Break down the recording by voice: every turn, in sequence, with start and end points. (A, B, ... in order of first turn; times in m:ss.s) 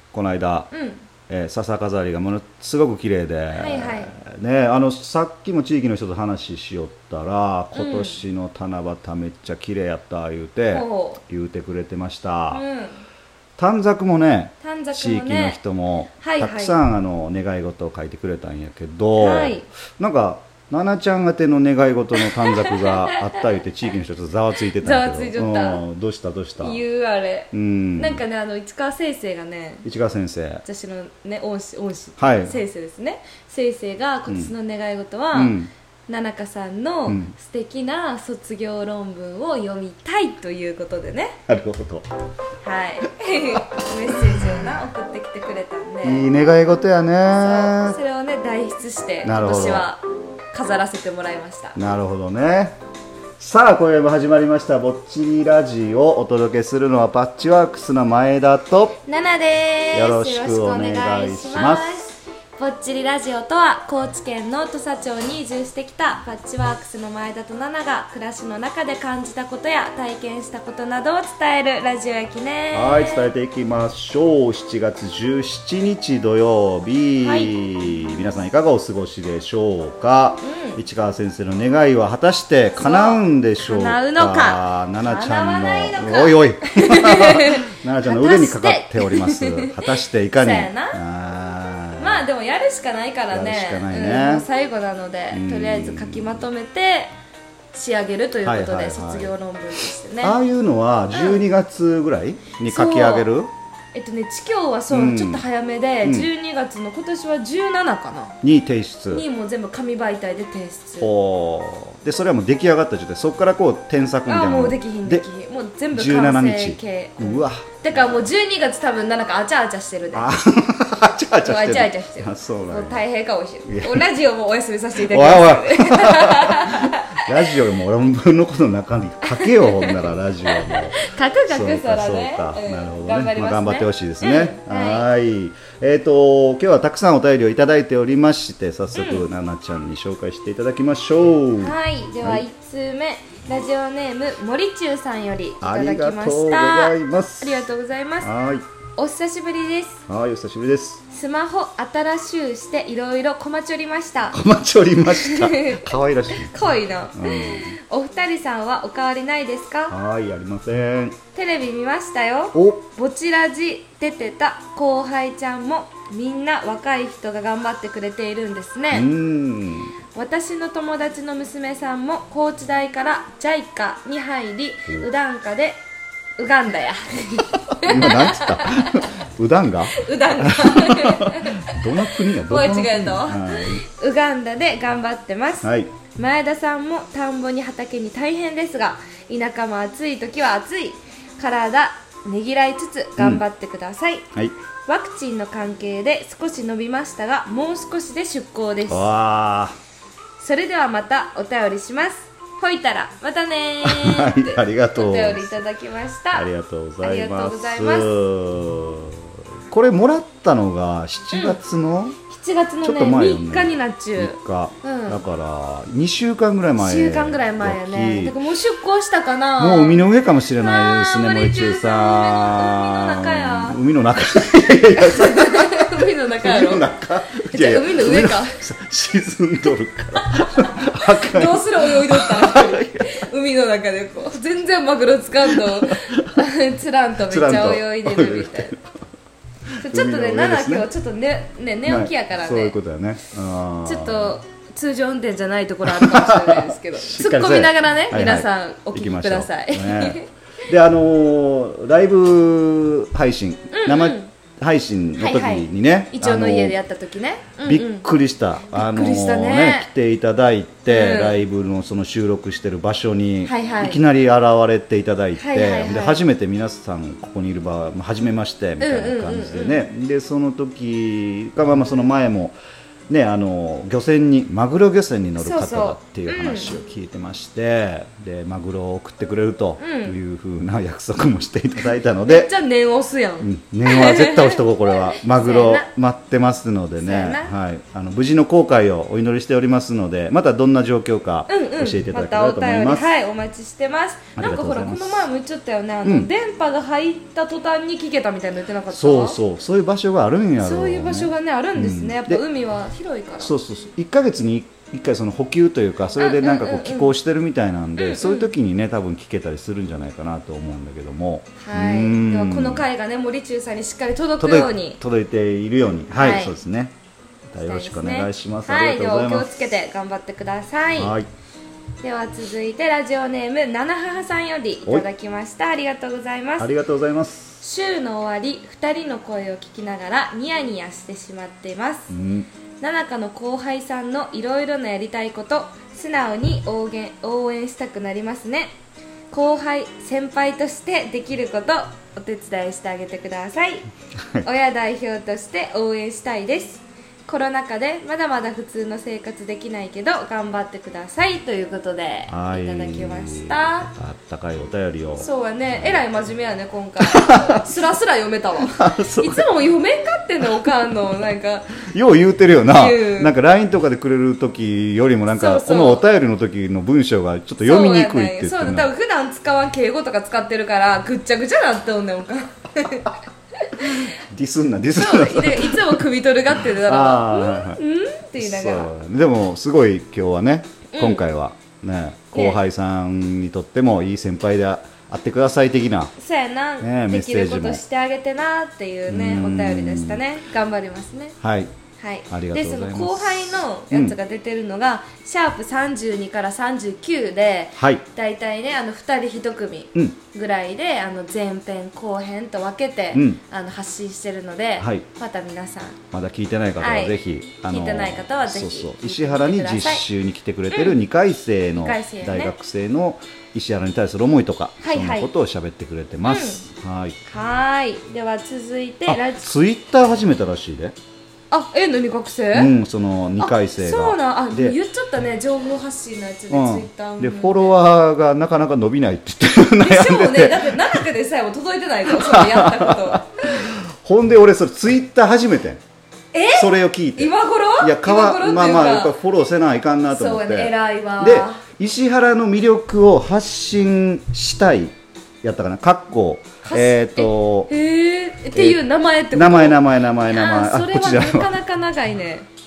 0:00.1-0:00.7 A
0:00.7-0:01.0 B
0:01.3-0:12.6 A
0:03.5-0:04.1 B
0:07.7-0:08.2 B
0:10.7-0:11.2 B
0:12.5-0:13.0 B
0:13.6-0:26.8 A
0:14.6-0:15.6 B
0:16.2-0:16.8 B
0:19.2-0:19.7 B
0:22.5-0:23.4 B
0:24.8-0:25.8 B
0:26.6-0:29.8 B
0:27.5-0:28.2 A
0:29.8-0:30.6 A
0:30.6-0:41.4 B
0:32.2-0:32.6 A
0:35.3-0:35.7 A
0:37.1-0:37.3 A
0:41.5-0:42.1 A
0:42.6-0:46.3 B
0:46.0-0:48.0 A
0:47.2-0:51.8 B
0:49.2-0:49.9 A
0:51.7-0:52.8 A
0:53.4-0:59.0 A
0:59.0-1:13.2 B
0:59.9-1:02.1 A
1:12.7-1:32.2 A
1:17.2-1:17.5 B
1:20.4-1:20.8 B
1:22.8-1:29.8 B
1:30.3-1:31.0 B
1:32.0-1:37.1 B
1:33.3-1:34.4 A
1:35.3-1:36.4 A
1:37.7-1:40.4 B
1:38.4-1:39.3 A
1:40.2-1:43.5 A
1:41.1-1:41.4 B
1:42.6-1:43.3 B
1:43.9-1:48.4 B
1:44.9-1:45.4 A
1:46.0-1:46.3 A
1:48.4-1:49.2 A
1:49.1-1:51.1 B
1:51.0-1:55.2 A
1:54.2-2:00.3 B
1:55.9-1:57.8 A
2:00.1-2:03.0 A
2:01.4-2:07.5 B
2:03.6-2:04.1 A
2:05.0-2:22.4 A
2:09.2-2:15.1 B
2:18.9-2:19.2 B
2:21.6-2:28.3 B
2:25.6-2:27.6 A
2:28.2-2:28.7 A
2:29.0-2:30.0 B
2:30.1-2:31.0 A
2:31.1-2:34.4 B
2:34.3-2:36.5 A
2:35.1-2:39.9 B
2:37.1-2:37.7 A
2:39.9-2:41.2 A
2:41.3-2:49.1 B
2:42.5-2:42.8 A
2:48.9-2:50.0 A
2:50.1-2:55.8 B
2:56.4-2:59.0 B
2:57.8-3:03.8 A
2:59.9-3:14.3 B
3:05.6-3:05.9 A
3:13.2-3:13.4 A
3:14.8-3:19.1 B
3:18.9-3:19.8 A
3:20.4-3:26.5 B
3:23.8-3:25.6 A
3:26.3-3:32.2 A
3:27.0-3:28.2 B
3:31.3-3:31.6 B
3:32.3-3:35.2 B
3:32.8-3:38.4 A
3:36.8-3:40.0 B
3:39.6-3:53.1 A
3:40.6-3:43.8 B
3:44.9-3:48.6 B
3:51.0-3:58.7 B
3:55.5-3:55.9 A
3:57.3-3:58.8 A
3:59.8-4:02.7 B
3:59.8-4:00.9 A
4:01.8-4:04.4 A
4:03.8-4:10.3 B
4:05.9-4:16.8 A
4:13.7-4:14.3 B
4:15.2-4:18.0 B
4:17.6-4:32.6 A
4:18.7-4:19.9 B
4:20.9-4:21.4 B
4:23.4-4:24.0 B
4:25.4-4:26.2 B
4:28.8-4:29.8 B
4:33.1-4:42.5 A
4:35.4-4:36.8 B
4:39.8-4:40.2 B
4:42.2-4:45.9 B
4:43.4-4:53.1 A
4:47.0-4:47.5 B
4:51.5-4:59.4 B
4:54.4-4:55.3 A
4:56.0-4:56.3 A
4:58.9-5:02.4 A
5:00.6-5:03.5 B
5:03.4-5:12.8 A
5:06.1-5:07.1 B
5:08.0-5:08.5 B
5:11.6-5:15.0 B
5:14.4-5:16.9 A
5:16.1-5:16.6 B
5:17.5-5:19.7 A
5:17.6-5:21.1 B
5:21.0-5:21.3 A
5:22.0-5:26.7 B
5:26.6-5:27.6 A
5:27.6-5:32.1 B
5:32.1-5:32.5 A
5:32.8-5:38.7 B
5:39.3-5:43.9 B
5:44.4-5:53.9 B
5:52.3-5:56.0 A
5:55.1-6:01.8 B
5:57.0-5:57.6 A
5:58.7-5:59.4 A
6:01.8-6:08.9 A
6:02.7-6:03.3 B
6:05.3-6:06.0 B
6:07.6-6:14.1 B
6:13.8-6:16.0 A
6:14.9-6:18.9 B
6:16.6-6:17.8 A
6:18.4-6:26.1 A
6:20.9-6:21.2 B
6:22.3-6:22.6 B
6:26.2-6:31.4 B
6:26.8-6:27.8 A
6:29.1-6:30.2 A
6:31.4-6:31.7 A
6:32.0-6:46.0 B
6:32.3-6:34.1 A
6:37.8-6:38.0 A
6:43.1-6:43.4 A
6:44.8-6:45.0 A
6:46.1-6:57.2 A
6:46.8-6:50.0 B
6:50.7-6:51.0 B
6:51.8-6:52.5 B
6:54.8-6:55.3 B
6:56.2-6:56.6 B
6:57.2-6:59.5 B
6:59.1-7:01.0 A
7:01.5-7:02.7 B
7:02.5-7:04.8 A
7:03.4-7:07.7 B
7:06.5-7:10.9 A
7:09.7-7:13.4 B
7:12.2-7:15.8 A
7:16.3-7:19.1 B
7:16.5-7:27.7 A
7:20.1-7:21.6 B
7:26.6-7:32.5 B
7:28.5-7:31.5 A